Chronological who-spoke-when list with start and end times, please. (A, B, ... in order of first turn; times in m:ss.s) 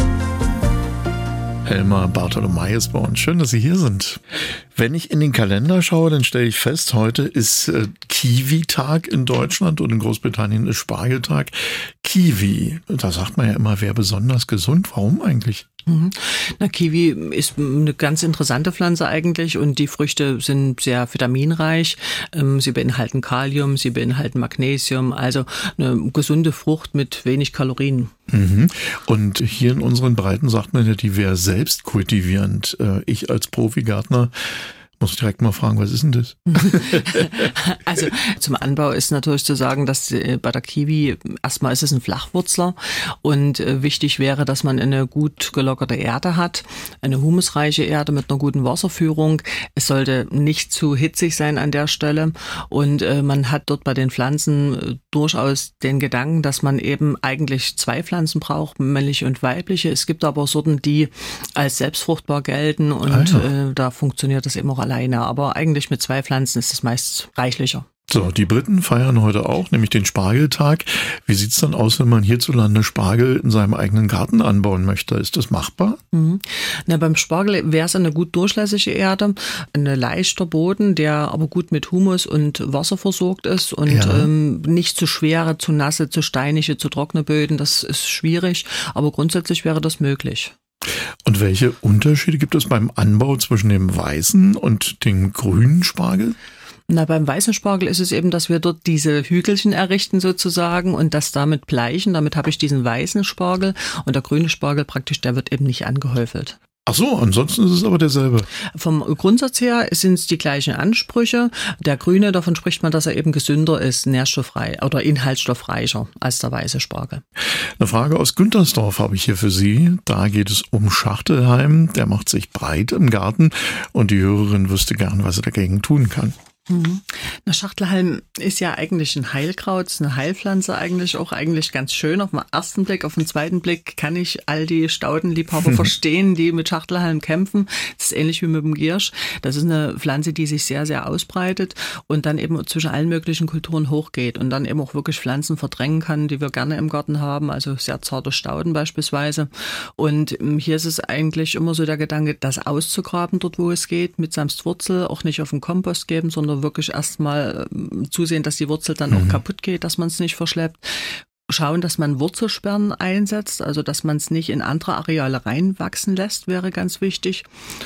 0:01.6-0:15.6 A
0:15.9-0:28.1 B
0:28.3-0:37.0 A
0:36.5-1:07.9 B
1:03.1-1:03.5 A
1:08.1-1:16.0 A
1:16.1-1:30.5 B
1:23.9-1:24.3 A
1:31.3-1:36.4 A
1:36.9-1:46.6 B
1:46.9-1:48.5 A
1:48.7-1:57.2 B
1:57.8-2:06.4 A
2:06.7-2:47.5 B
2:39.1-2:39.4 A